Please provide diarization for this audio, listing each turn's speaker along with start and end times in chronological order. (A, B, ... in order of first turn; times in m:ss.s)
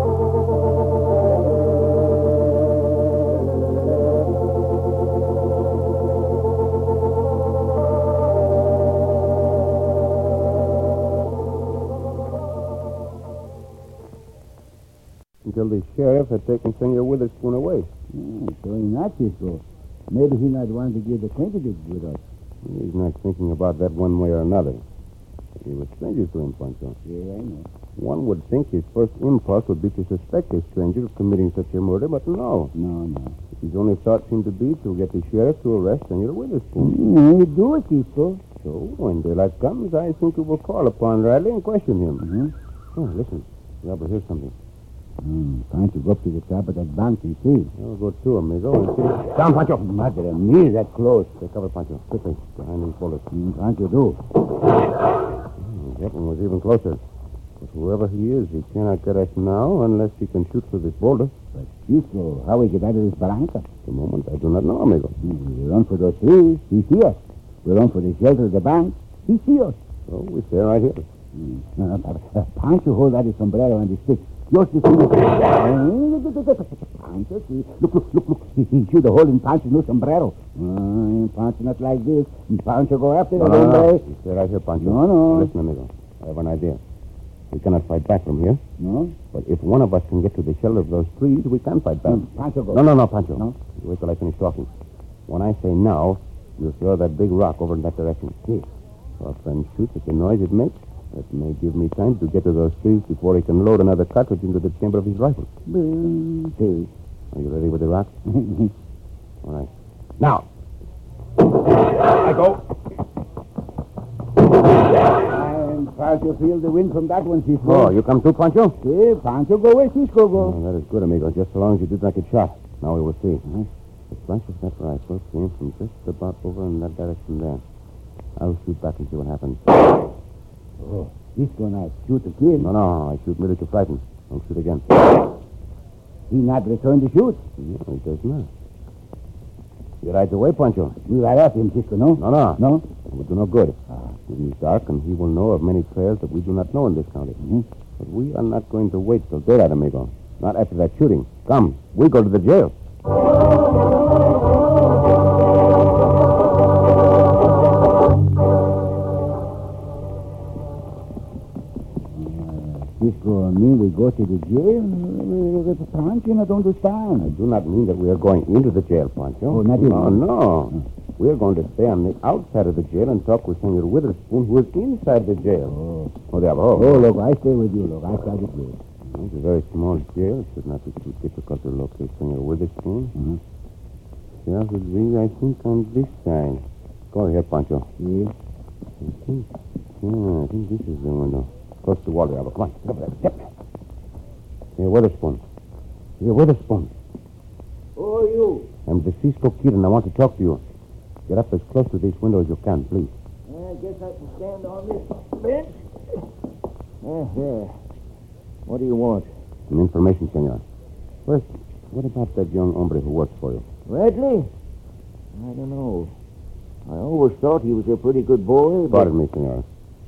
0:15.4-0:17.9 A
0:18.1-0:22.2 B
0:22.6-0:24.8 A
0:25.6-0:27.0 A
0:27.0-0:27.7 B
0:28.0-0:32.7 A
0:32.7-0:33.4 B
0:33.6-0:37.0 A
0:36.8-0:38.4 B
0:38.6-0:42.2 A
0:42.2-0:42.5 B
0:43.0-0:44.5 A
0:45.2-0:47.7 B
0:47.8-0:49.8 A
0:49.7-0:51.4 B
0:51.4-0:53.2 A
0:53.3-0:54.2 B
0:55.6-0:57.0 A
0:57.6-1:01.3 A
1:01.5-1:03.7 B
1:03.8-1:05.2 A
1:05.2-1:09.8 B
1:10.1-1:11.0 A
1:11.3-1:24.0 B
1:23.4-1:26.8 A
1:24.8-1:25.5 B
1:27.5-1:28.6 A
1:28.8-1:29.2 B
1:29.3-1:34.7 A
1:32.0-1:33.5 B
1:35.3-1:38.7 A
1:39.2-1:45.5 A
1:45.7-1:46.9 B
1:47.3-1:48.1 A
1:48.3-1:48.7 B
1:49.4-1:50.4 A
1:51.8-1:52.7 A
1:55.1-1:57.9 B
1:57.6-1:58.8 A
1:58.8-2:00.6 B
2:00.4-2:03.4 A
2:04.1-2:07.6 A
2:08.4-2:09.8 A
2:10.8-2:12.7 B
2:12.6-2:15.0 A
2:16.3-2:17.4 B
2:17.6-2:18.5 A
2:20.0-2:21.0 A
2:21.0-2:22.9 B
2:22.2-2:27.4 A
2:27.4-2:27.6 B
2:28.0-2:32.7 A
2:42.1-2:47.4 B
2:47.2-2:55.8 A
2:49.5-2:50.8 B
2:55.6-2:56.1 B
2:56.3-2:57.0 A
2:56.7-2:58.8 B
2:59.1-3:03.1 A
3:03.1-3:03.4 B
3:04.4-3:07.9 A
3:08.0-3:08.3 B
3:09.0-3:09.5 A
3:10.0-3:13.5 A
3:14.8-3:15.4 A
3:16.2-3:16.9 A
3:18.0-3:18.7 C
3:18.9-3:20.6 A
3:21.3-3:23.1 A
3:23.5-3:25.9 C
3:27.0-3:27.8 C
3:28.7-3:29.3 C
3:29.7-3:30.6 A
3:31.2-3:33.6 A
3:33.9-3:34.5 C
3:35.3-3:36.1 C
3:36.8-3:39.1 C
3:38.9-3:39.6 A